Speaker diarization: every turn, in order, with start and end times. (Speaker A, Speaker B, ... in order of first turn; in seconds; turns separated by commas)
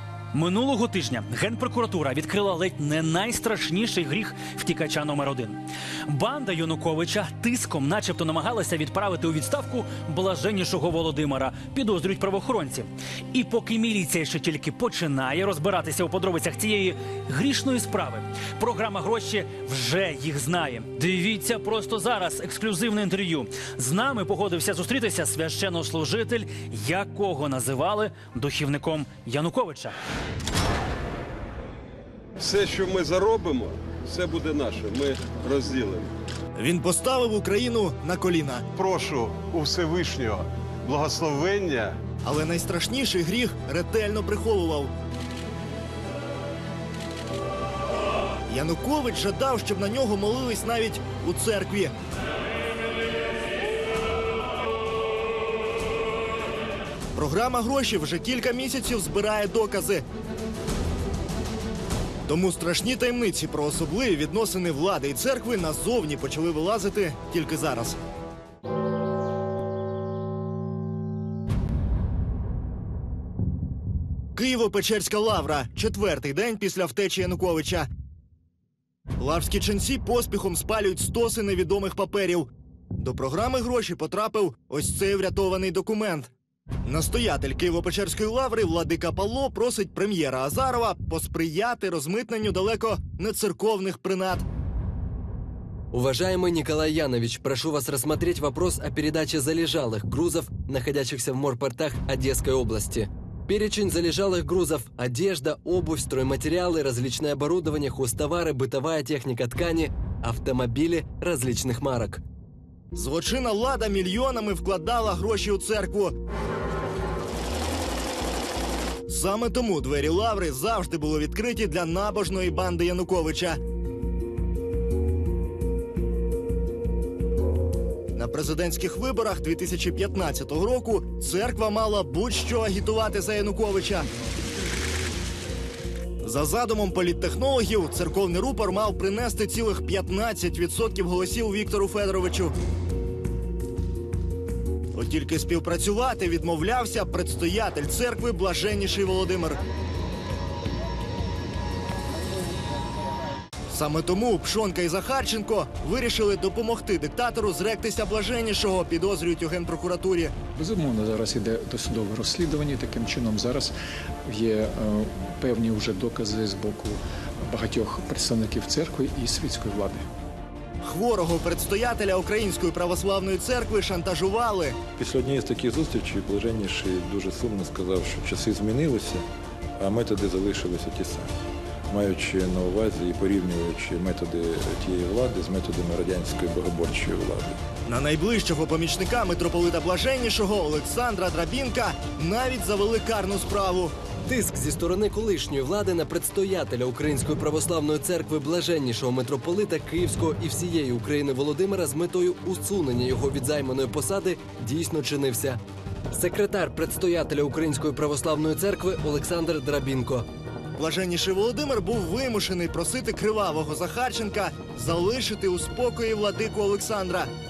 Speaker A: 0.3-30.0, Speaker B: 32.4-36.1, Speaker C: 36.6-38.6, Speaker B: 38.8-42.0, Speaker C: 42.2-44.9, Speaker C: 48.5-51.9, Speaker C: 57.2-60.0, Speaker C: 62.3-68.0, Speaker C: 74.3-77.9, Speaker C: 79.2-86.3, Speaker C: 86.8-94.5, Speaker D: 95.9-112.2, Speaker C: 112.9-116.1, Speaker C: 119.1-123.6, Speaker C: 128.2-134.1, Speaker C: 136.2-142.5, Speaker C: 144.9-149.6, Speaker C: 153.7-160.3, Speaker E: 160.6-163.8, Speaker E: 164.3-170.1, Speaker C: 170.8-174.8, Speaker F: 175.0-179.2, Speaker F: 179.8-181.3, Speaker F: 181.9-187.6, Speaker C: 187.9-193.9, Speaker D: 194.3-205.6, Speaker D: 206.1-210.3, Speaker C: 210.8-217.3